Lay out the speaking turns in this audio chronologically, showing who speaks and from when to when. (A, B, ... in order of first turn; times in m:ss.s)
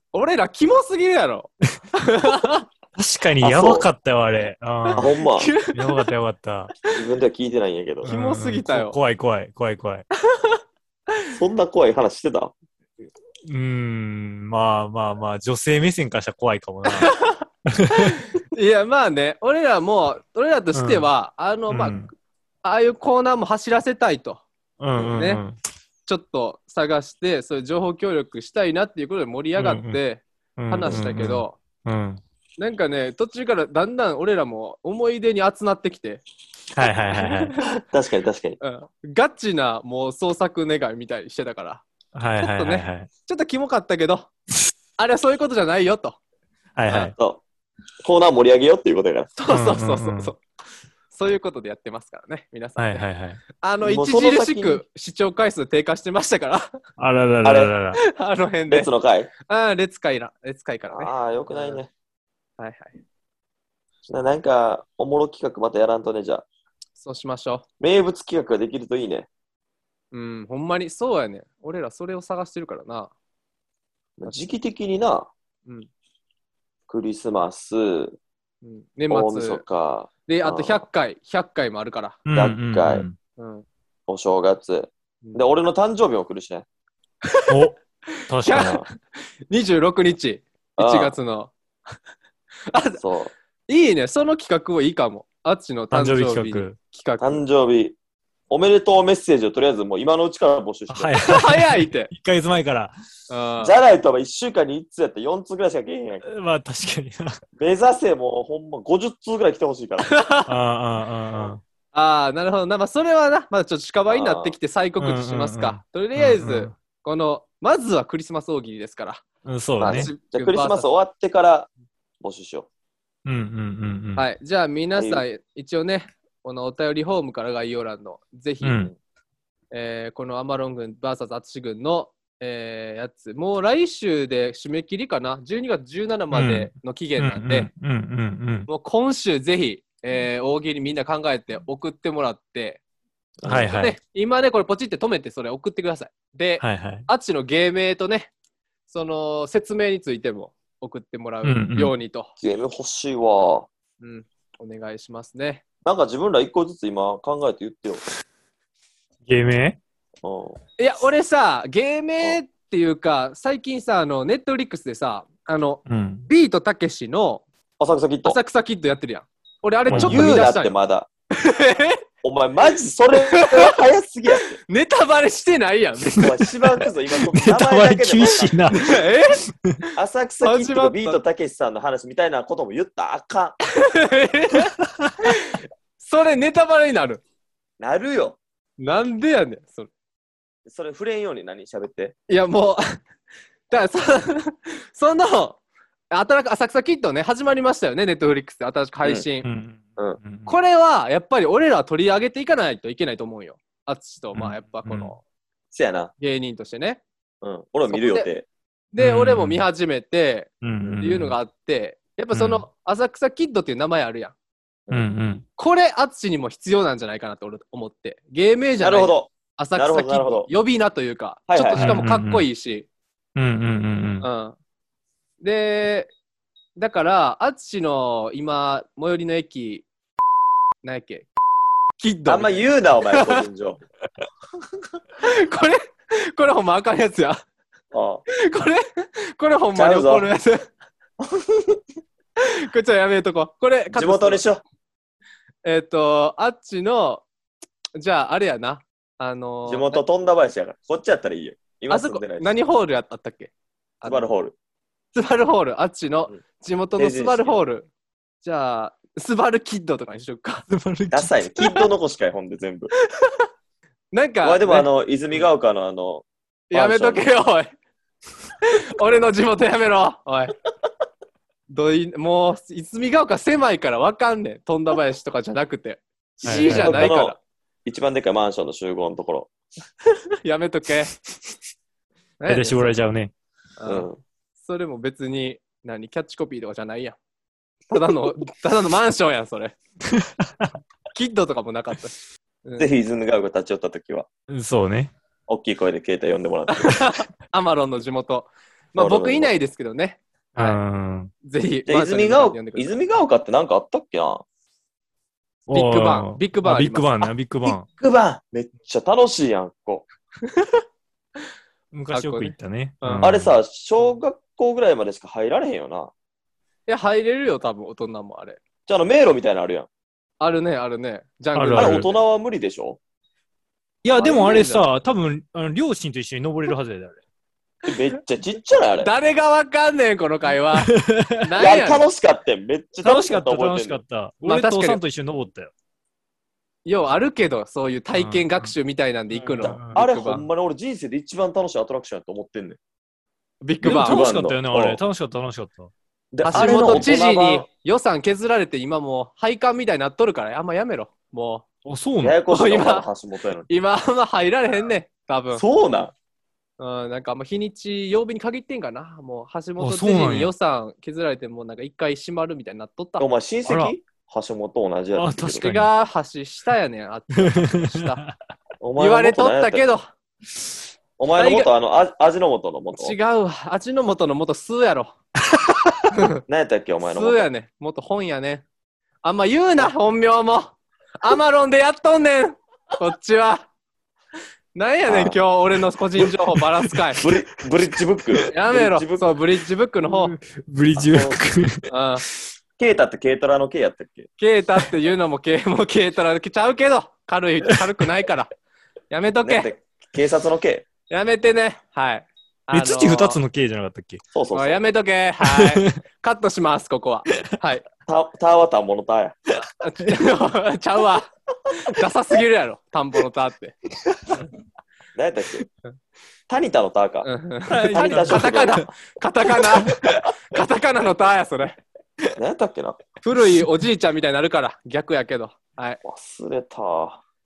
0:00.1-0:02.6 A
0:02.9-0:05.1 B
0:03.4-0:03.9 C
0:05.0-0:05.5 C
0:05.0-0:06.0 A
0:05.7-0:06.7 B
0:06.9-0:08.1 C
0:08.0-0:09.0 A
0:08.0-0:10.0 B
0:10.2-0:10.6 A
0:11.3-0:12.5 C
0:13.4-0:17.1 B
0:16.8-0:22.0 A
0:17.6-0:18.2 B
0:20.7-0:21.1 B
0:21.7-0:22.1 B
0:22.6-0:24.4 A
0:24.8-0:25.6 B
0:25.1-0:25.4 A
0:26.0-0:31.6 A
0:29.6-0:30.0 B
0:30.6-0:32.2 B
0:32.6-0:36.2 A
0:36.7-0:37.5 B
0:37.1-0:37.6 A
0:37.8-0:38.6 C
0:38.6-0:41.8 A
0:42.1-0:43.1 B
0:42.4-0:44.3 A
0:45.0-0:46.2 A
0:46.8-0:47.1 B
0:47.1-0:47.4 C
0:48.0-0:49.3 C
0:49.4-0:50.4 A
0:49.5-0:50.3 B
0:51.1-0:53.0 A
0:52.8-0:53.4 B
0:53.6-0:56.7 A
0:53.8-0:54.8 C
0:57.0-0:58.0 B
0:57.4-0:57.7 C
0:58.1-0:58.9 A
0:58.7-0:59.3 C
0:59.4-1:01.8 A
1:00.9-1:01.9 C
1:02.6-1:03.0 A
1:04.1-1:06.4 C
1:07.0-1:07.6 A
1:07.8-1:09.3 C
1:10.1-1:13.1 A
1:14.2-1:15.3 C
1:16.9-1:18.2 C
1:18.6-1:19.6 A
1:19.1-1:20.8 C
1:20.3-1:22.2 A
1:22.2-1:23.2 B
1:22.3-1:23.0 C
1:23.4-1:23.6 A
1:24.1-1:26.6 C
1:27.3-1:27.7 A
1:27.5-1:27.8 B
1:28.3-1:28.8 B
1:28.4-1:28.8 A
1:28.5-1:28.9 C
1:29.5-1:31.5 A
1:30.8-1:31.1 C
1:32.7-1:33.0 A
1:33.0-1:33.3 C
1:33.7-1:37.4 A
1:35.9-1:36.8 B
1:37.2-1:38.0 C
1:38.5-1:41.3 C
1:40.9-1:42.9 B
1:41.2-1:42.1 A
1:43.3-1:43.7 A
1:43.6-1:46.2 C
1:46.2-1:47.4 B
1:47.6-1:50.1 C
1:50.0-1:50.5 A
1:50.5-1:51.6 B
1:51.9-1:59.2 A
1:54.1-1:54.5 C
1:55.0-1:56.7 B
1:59.4-2:00.1 B
1:59.8-2:01.7 C
1:59.9-2:00.9 A
2:02.2-2:02.7 C
2:03.2-2:04.3 B
2:04.2-2:08.9 A
2:04.9-2:05.2 C
2:08.6-2:08.9 B
2:09.7-2:17.7 A
2:16.3-2:18.7 B
2:18.7-2:22.8 A
2:23.4-2:23.7 C
2:23.4-2:24.0 B
2:23.7-2:28.3 A
2:26.6-2:27.1 B
2:28.9-2:32.3 A
2:31.4-2:31.9 B
2:32.4-2:33.7 C
2:34.0-2:35.6 A
2:35.8-2:38.0 C
2:39.2-2:39.8 B
2:40.2-2:40.6 C
2:40.8-2:47.4 A
2:45.9-2:46.3 B
2:47.8-2:48.4 C
2:48.2-2:50.7 A
2:49.9-2:51.1 C
2:49.9-2:50.4 B
2:51.3-2:52.0 A
2:52.2-2:54.6 C
2:53.3-2:53.7 A
2:54.7-2:56.3 A
2:56.2-2:58.7 C
2:57.3-2:59.8 B
2:58.7-2:59.4 A
3:00.0-3:03.6 C
3:00.4-3:01.2 A
3:03.7-3:04.7 A
3:05.2-3:07.2 A
3:07.8-3:08.4 C
3:08.8-3:09.9 A
3:10.6-3:12.1 C
3:12.3-3:13.0 A
3:13.7-3:15.6 A
3:16.1-3:19.5 A
3:19.4-3:20.5 B
3:20.4-3:25.2 A
3:24.3-3:25.1 B
3:25.7-3:26.1 C
3:26.2-3:27.0 A
3:27.4-3:28.5 C
3:27.9-3:28.3 A
3:28.9-3:34.3 A
3:29.0-3:29.6 B
3:30.6-3:31.3 B
3:30.8-3:31.1 C
3:32.3-3:32.6 B
3:34.9-3:35.4 B
3:35.6-3:42.9 A
3:38.8-3:40.5 C
3:41.5-3:42.0 C
3:41.8-3:42.4 B
3:43.4-3:44.2 B
3:44.2-3:44.6 A
3:45.4-3:46.1 A
3:46.8-3:49.8 A
3:50.8-3:51.3 A
3:52.0-3:53.4 A
3:52.3-3:53.8 C
3:55.2-3:57.4 A
3:57.9-3:58.2 C
3:58.3-4:00.6 A
3:59.7-4:00.3 C
4:01.2-4:01.8 C
4:02.4-4:04.4 A
4:03.9-4:04.6 C
4:05.6-4:07.2 A
4:08.0-4:10.0 A
4:09.6-4:12.5 C
4:11.9-4:14.3 A
4:14.0-4:14.5 C
4:15.1-4:17.9 A
4:17.0-4:17.6 C
4:18.4-4:20.7 A
4:20.7-4:21.8 B
4:21.1-4:22.9 C
4:24.1-4:24.9 A
4:24.4-4:27.3 C
4:26.7-4:27.7 A
4:28.6-4:30.5 A
4:31.7-4:37.4 A
4:36.4-4:39.5 C
4:36.4-4:37.1 B
4:40.1-4:41.1 A
4:42.4-4:43.0 A
4:42.5-4:43.3 B
4:43.8-4:44.1 A
4:43.8-4:44.2 C
4:44.6-4:47.2 A
4:47.9-4:49.8 A
4:50.1-4:50.6 B
4:51.1-4:52.9 A
4:52.8-4:54.3 C
4:54.5-4:55.1 B
4:55.5-4:57.1 C
4:56.7-5:00.8 A
4:58.9-4:59.5 C
5:00.5-5:01.3 B
5:01.4-5:02.9 A
5:01.9-5:04.4 C
5:05.7-5:07.9 B
5:05.7-5:07.3 A
5:07.9-5:10.1 C
5:10.5-5:10.8 A
5:11.9-5:13.5 B
5:12.1-5:13.3 A
5:13.2-5:16.1 C
5:16.9-5:18.6 A
5:18.9-5:19.9 C
5:20.4-5:22.1 A
5:21.5-5:22.1 B
5:21.8-5:23.0 C
5:24.0-5:27.2 B
5:24.1-5:24.4 C
5:24.1-5:24.8 A
5:27.8-5:29.1 C
5:29.0-5:32.0 A
5:30.8-5:31.4 B
5:31.6-5:34.0 C
5:33.0-5:35.7 B
5:34.4-5:35.0 A
5:36.8-5:40.4 A
5:38.1-5:38.7 B
5:39.3-5:40.0 B
5:39.8-5:42.8 C
5:43.6-5:44.2 A
5:43.8-5:45.0 C
5:43.8-5:45.9 B
5:46.3-5:47.6 C
5:46.4-5:47.0 B
5:46.4-5:51.6 A
5:51.8-5:52.4 B
5:52.2-5:53.7 C
5:52.5-5:53.1 A
5:53.7-5:55.6 A
5:55.5-5:56.1 C
5:56.8-6:03.3 A
5:59.8-6:00.5 B
6:03.2-6:05.6 C
6:03.7-6:03.9 B
6:05.1-6:05.9 B
6:05.6-6:08.2 A
6:07.4-6:08.3 B
6:08.8-6:09.8 C
6:09.0-6:10.1 A
6:11.2-6:13.2 C
6:11.4-6:11.7 A
6:12.9-6:15.2 A
6:16.1-6:16.4 A
6:16.4-6:17.4 C
6:17.0-6:18.6 A
6:19.2-6:23.6 A
6:24.8-6:27.2 A
6:25.1-6:25.4 C
6:27.2-6:29.4 C
6:28.5-6:30.4 A
6:30.1-6:31.8 B
6:30.9-6:31.4 C
6:31.9-6:32.2 A
6:32.8-6:34.3 C
6:34.4-6:38.5 A
6:39.1-6:39.7 A
6:39.4-6:40.9 C
6:41.1-6:43.4 A
6:42.7-6:44.2 B
6:44.3-6:44.8 C
6:44.5-6:47.8 A
6:45.4-6:45.8 B
6:48.1-6:49.4 C
6:49.7-6:53.8 A
6:55.2-6:55.6 C
6:56.5-6:57.3 C
6:57.2-7:01.8 A
6:57.7-6:58.7 B
6:57.9-6:58.9 C
6:59.8-7:00.2 B
7:02.4-7:03.0 C
7:03.2-7:06.0 A
7:06.0-7:07.2 C